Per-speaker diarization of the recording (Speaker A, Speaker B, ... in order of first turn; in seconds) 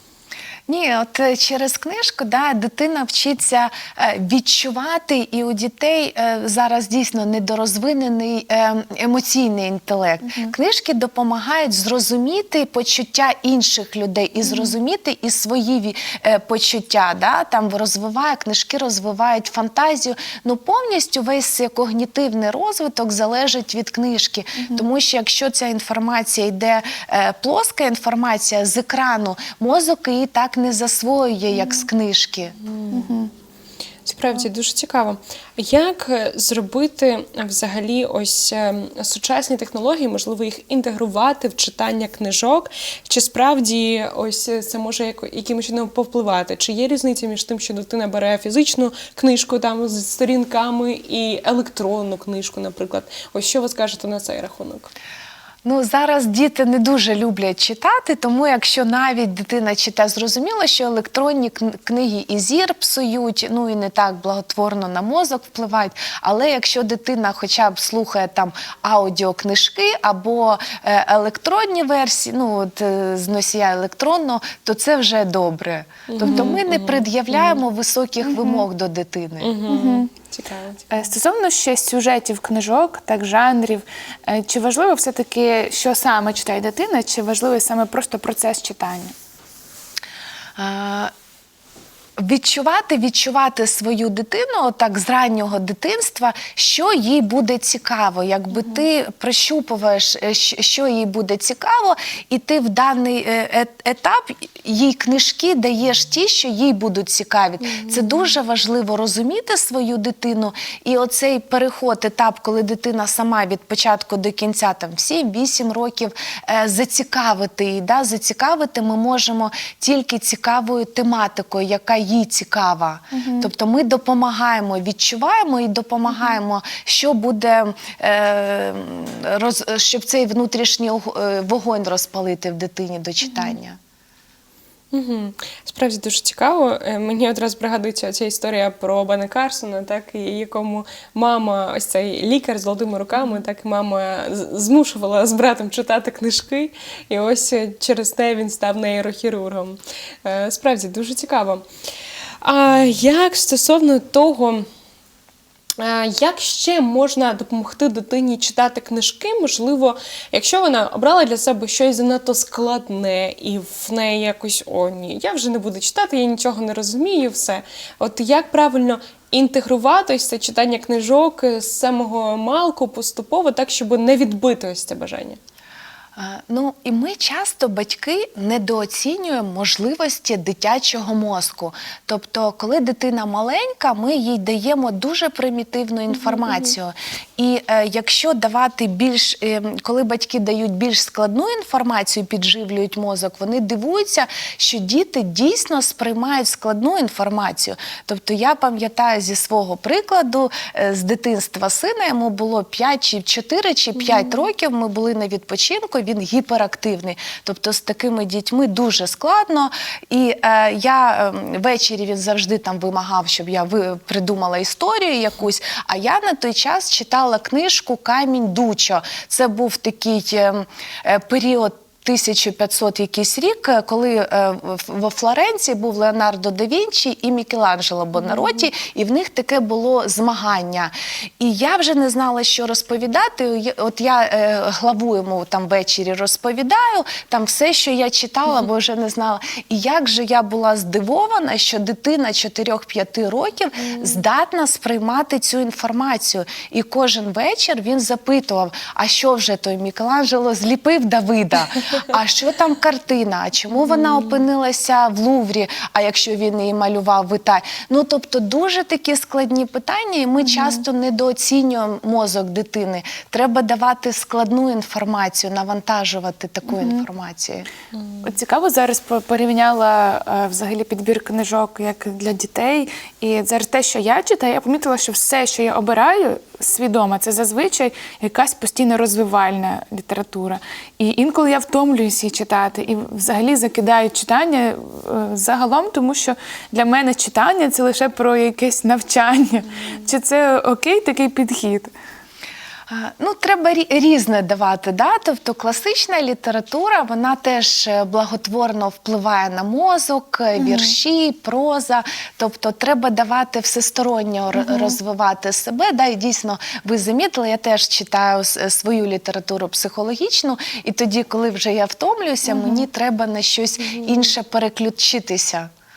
Speaker A: 0.7-32.6, 55.6-79.6, 90.6-91.1, 92.2-133.8, 176.2-267.7, 292.9-315.7
Speaker B: 10.2-10.5, 14.4-14.8, 24.6-24.9, 31.6-31.9, 32.9-33.3, 76.2-76.6, 78.2-78.7, 79.7-80.1, 80.9-89.1, 98.5-98.8, 123.1-123.5, 133.2-133.6, 260.4-260.8, 266.7-267.1, 268.2-291.9, 300.6-300.9, 304.5-305.0, 312.4-312.9
Speaker C: 32.6-33.1, 34.1-54.9, 76.1-77.4, 79.4-81.0, 107.6-108.2, 134.9-151.6, 152.4-154.7, 155.8-175.4, 267.9-268.3, 313.8-314.3